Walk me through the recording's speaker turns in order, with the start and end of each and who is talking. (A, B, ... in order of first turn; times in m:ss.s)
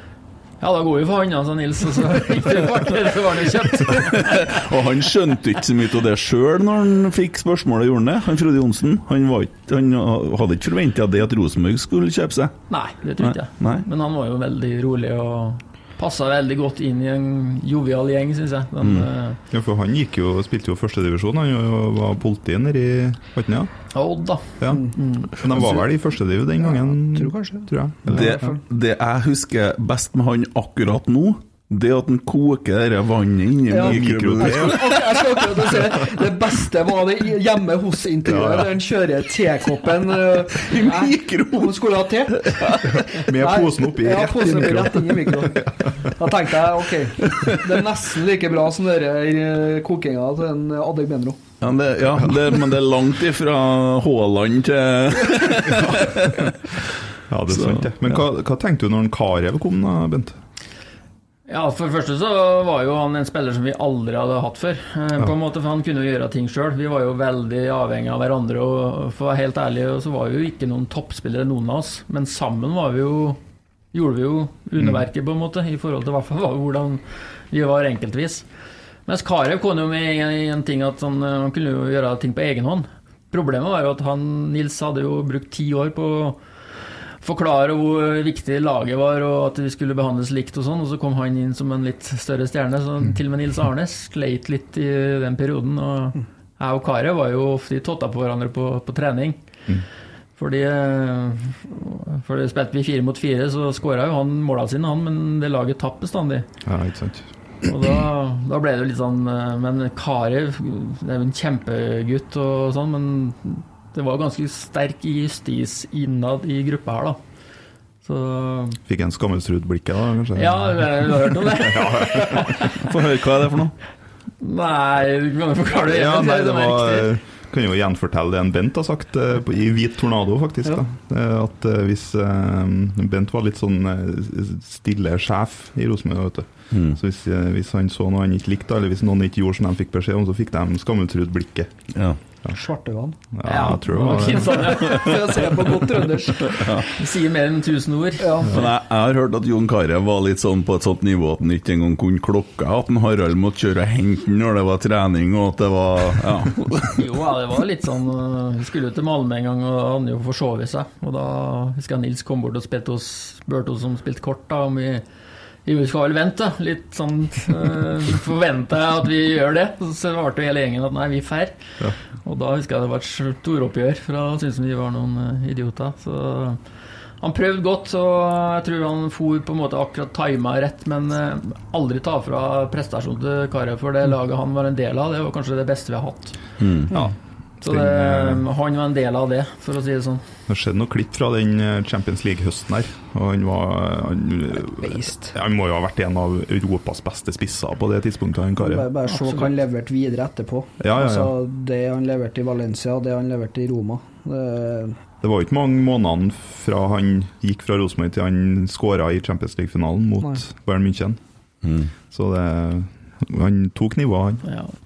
0:00.6-0:04.6 A
0:04.0-0:12.6 B
0:12.7-0:19.4 A
0:13.2-0:13.8 B
0:18.8-0:19.1 B
0:19.5-0:23.7 C
0:23.9-0:25.4 A
0:24.6-0:28.5 C
0:25.5-0:25.8 D
0:26.6-0:28.6 D
0:28.1-0:36.2 B
0:33.7-0:51.4 D
0:33.7-0:35.0 C
0:38.2-0:38.7 C
0:40.4-0:43.2 B
0:43.0-0:46.1 C
0:47.2-0:47.7 B
0:51.6-0:56.9 B
0:57.3-1:00.4 C
0:57.5-0:57.9 B
1:01.5-1:13.4 A
1:13.9-1:18.4 A
1:19.1-1:26.4 A
1:27.2-1:39.4 A
1:40.4-1:46.5 A
1:46.6-1:47.3 C
1:47.6-1:57.2 A
1:58.0-1:58.8 A
1:58.9-2:02.7 C
2:00.4-2:02.8 A
2:02.7-2:03.8 B
2:04.4-2:07.1 A
2:05.9-2:21.7 C
2:16.7-2:17.0 B
2:21.9-2:22.2 B
2:22.5-2:26.9 D
2:23.3-2:24.8 C
2:23.4-2:25.5 A
2:26.5-2:26.9 B
2:27.0-2:28.5 A
2:28.2-2:28.6 D
2:28.5-2:37.0 B
2:37.0-2:45.0 A
2:45.6-2:56.6 A
2:57.2-3:06.4 A
3:06.6-3:06.9 B
3:06.9-3:08.5 C
3:07.6-3:10.2 A
3:10.5-3:18.9 C
3:14.8-3:15.3 D
3:18.6-3:25.0 D
3:19.1-3:19.5 A
3:20.8-3:21.4 C
3:25.2-3:31.2 C
3:31.6-3:31.9 B
3:32.1-3:34.4 C
3:34.4-3:34.7 A